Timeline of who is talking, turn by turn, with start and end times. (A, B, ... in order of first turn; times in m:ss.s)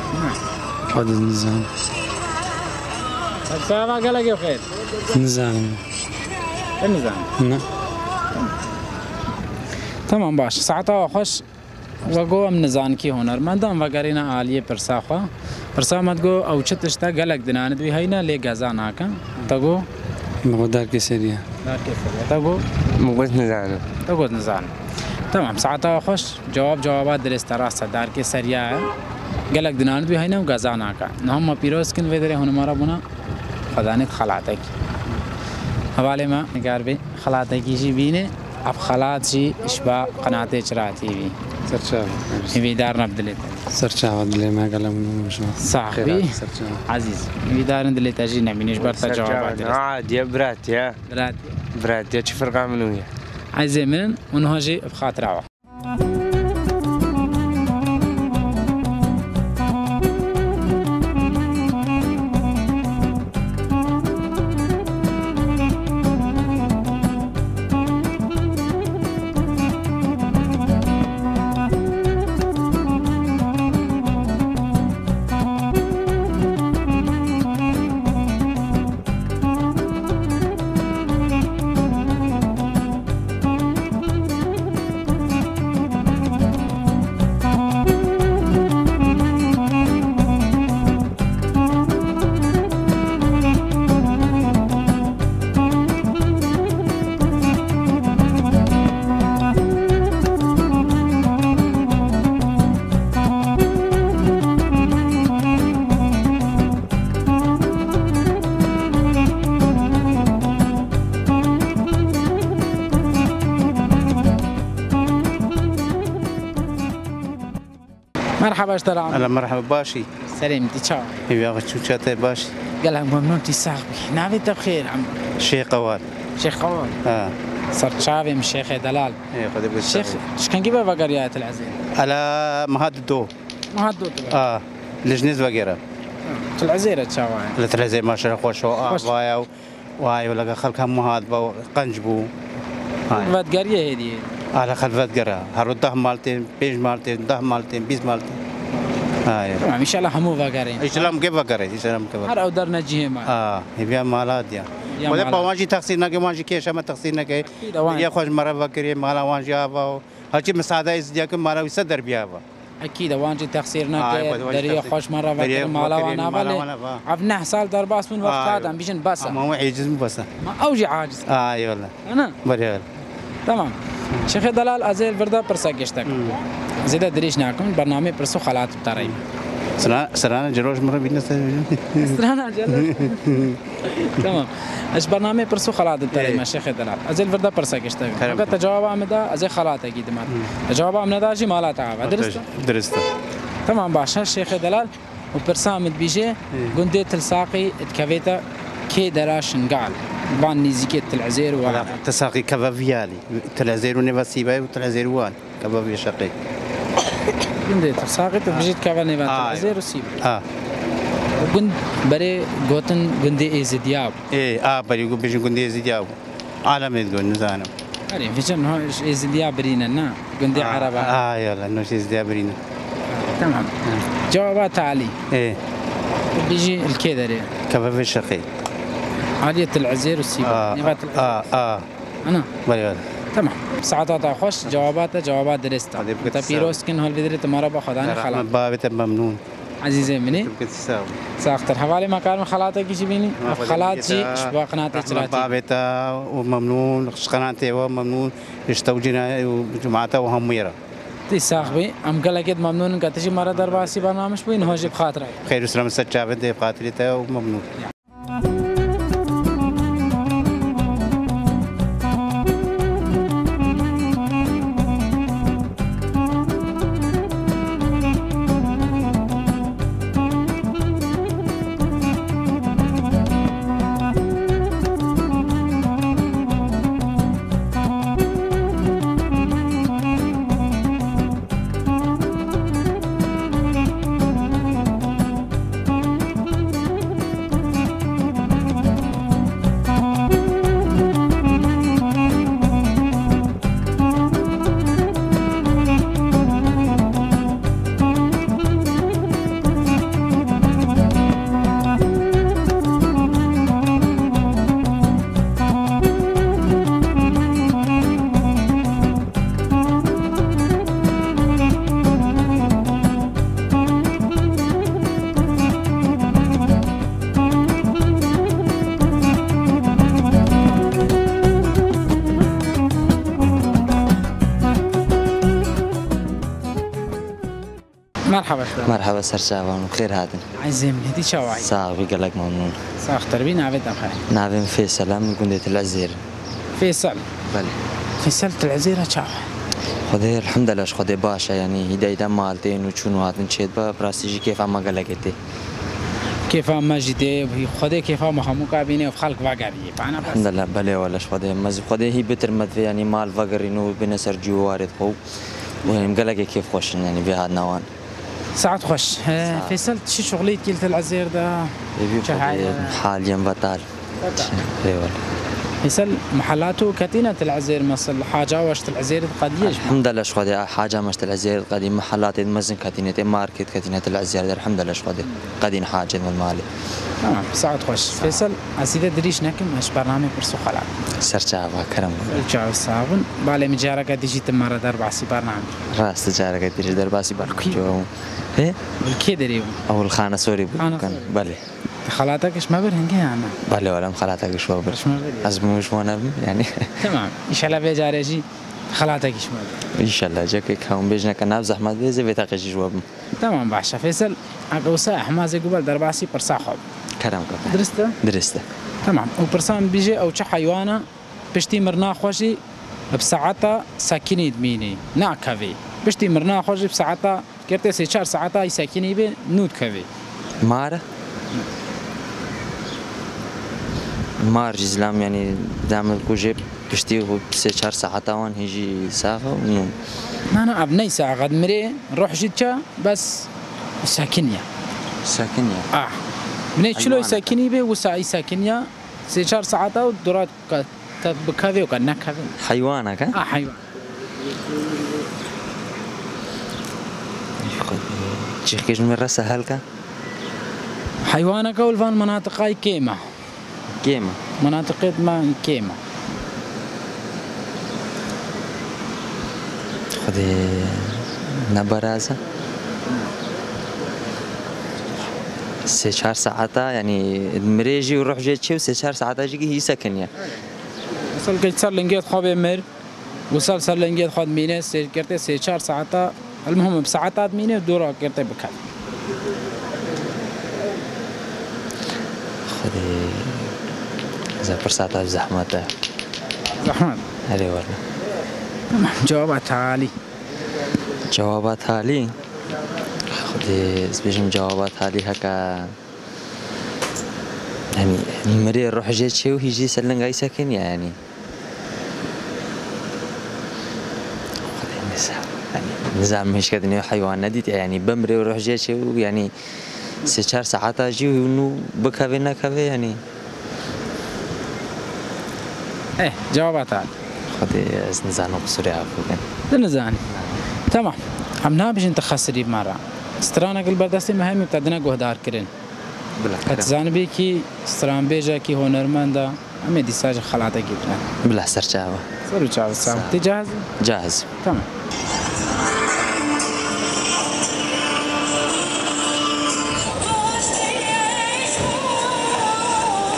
0:00.1-0:00.4 A
0:00.9-0:01.7 B
0:03.5-0:04.7 A
0:05.1-0:05.8 B
0:06.8-0:07.3 A
0:07.4-0:07.6 B
0:10.1-0:11.4 A
0:12.0-0:19.8 A
0:20.4-0:21.4 B
0:21.6-0:22.6 A
0:23.0-0:23.8 C
0:24.0-0:24.7 A
0:25.3-0:28.9 A
0:29.5-0:33.0 A
0:33.7-0:34.7 A
0:35.9-0:41.4 A
0:41.7-0:42.6 B
0:42.5-0:43.6 A
0:43.7-0:46.8 B
0:45.6-0:49.8 A
0:48.8-0:51.0 C
0:51.1-0:51.6 A
0:51.7-0:53.1 C
0:53.5-0:55.5 A
1:58.4-1:59.3 A
1:59.1-2:00.1 D
2:00.3-2:01.2 A
2:01.3-2:02.5 D
2:02.8-2:05.1 A
2:05.4-2:06.0 D
2:06.4-2:07.0 A
2:07.0-2:07.3 D
2:07.7-2:09.2 A
2:09.3-2:10.2 D
2:09.8-2:11.8 A
2:12.0-2:13.3 D
2:13.7-2:14.4 A
2:14.3-2:15.8 D
2:16.2-2:17.6 A
2:17.6-2:19.5 D
2:20.0-2:22.3 D
2:23.1-2:23.4 D
2:23.1-2:24.3 A
2:24.5-2:28.4 D
2:29.2-2:29.7 D
2:29.6-2:31.1 A
2:30.8-2:32.3 D
2:32.2-2:33.3 A
2:33.2-2:42.4 D
2:35.0-2:35.5 A
2:37.4-2:38.1 A
2:42.8-2:49.4 A
2:44.0-2:47.0 D
2:48.2-2:50.3 D
2:50.4-2:51.3 A
2:51.3-2:51.9 D
2:52.0-2:52.4 A
2:52.4-2:52.8 D
2:53.4-2:56.2 A
2:56.1-2:56.4 D
2:56.8-2:59.2 A
2:59.8-3:03.6 D
3:02.0-3:12.4 A
3:06.1-3:06.4 D
3:08.2-3:08.6 D
3:12.0-3:13.0 D
3:13.6-3:22.0 A
3:21.6-3:26.3 D
3:27.5-3:30.2 A
3:29.2-3:30.4 D
3:31.4-3:34.2 A
3:34.3-3:37.7 D
3:38.1-3:41.1 A
3:40.5-3:42.6 D
3:43.1-3:45.2 A
3:45.3-3:45.6 D
3:46.3-3:47.5 A
3:47.7-3:48.4 D
3:49.4-3:51.3 A
3:50.4-3:51.8 D
3:52.6-3:53.0 D
3:53.3-3:58.4 A
3:56.0-3:56.8 D
3:58.0-3:59.4 D
3:59.8-4:00.5 A
4:00.2-4:01.2 D
4:01.4-4:05.5 A
4:03.4-4:10.8 D
4:11.3-4:15.5 A
4:13.5-4:14.1 D
4:14.6-4:14.9 D
4:15.4-4:17.7 D
5:28.3-5:29.0 A
5:28.8-5:30.4 E
5:30.6-5:31.7 A
5:31.6-5:32.8 E
5:33.0-5:34.2 A
5:34.3-5:36.2 E
5:36.8-5:37.2 A
5:37.5-5:37.8 E
5:38.2-5:39.5 A
5:40.1-5:45.4 E
5:46.5-5:50.5 A
5:50.2-5:55.2 E
5:55.8-5:57.8 E
5:58.6-6:03.0 A
5:59.4-5:59.8 E
6:02.0-6:05.2 E
6:04.2-6:04.5 A
6:05.8-6:10.0 A
6:09.6-6:16.6 E
6:17.2-6:21.0 A
6:18.2-6:18.5 E
6:21.2-6:22.5 E
6:22.3-6:25.8 A
6:25.9-6:28.8 E
6:27.4-6:27.8 A
6:29.0-6:29.8 A
6:29.9-6:31.6 E
6:30.8-6:31.3 A
6:32.0-6:33.6 A
6:33.7-6:37.0 E
6:34.9-6:35.5 A
6:37.0-6:39.8 A
6:40.0-6:43.0 E
6:43.4-6:46.8 A
6:47.2-6:48.6 E
6:47.7-6:48.2 A
6:49.0-6:52.6 A
6:53.1-7:00.1 A
7:00.6-7:01.0 E
7:04.4-7:10.0 E
7:10.5-7:13.5 A
7:14.0-7:14.6 A
7:15.2-7:15.9 E
7:15.9-7:16.2 A
7:16.8-7:22.5 A
7:17.0-7:17.5 E
7:22.6-7:23.4 E
7:23.3-7:23.8 A
7:27.6-7:29.8 E
7:31.2-7:33.2 A
7:34.0-7:34.4 E
7:34.6-7:36.0 A
7:40.2-7:42.4 E
7:45.9-7:50.3 E
7:51.3-7:52.8 A
7:53.5-7:58.9 A
8:02.7-8:03.7 E
8:04.6-8:05.9 E
8:06.8-8:07.2 A
8:07.5-8:08.0 E
8:08.9-8:10.1 A
8:11.3-8:12.3 E
8:13.3-8:16.0 E
8:17.9-8:21.2 E
8:24.7-8:29.5 E
8:30.2-8:33.2 E
8:36.2-8:37.1 A
8:37.5-8:39.4 E
8:39.7-8:40.2 A
8:40.3-8:40.6 E
8:40.9-8:45.7 A
8:46.4-8:46.9 E
8:46.6-8:51.3 A
8:51.4-8:52.3 E
8:52.5-8:53.9 A
8:53.0-8:53.4 E
8:54.0-8:54.5 E
8:54.6-8:54.9 A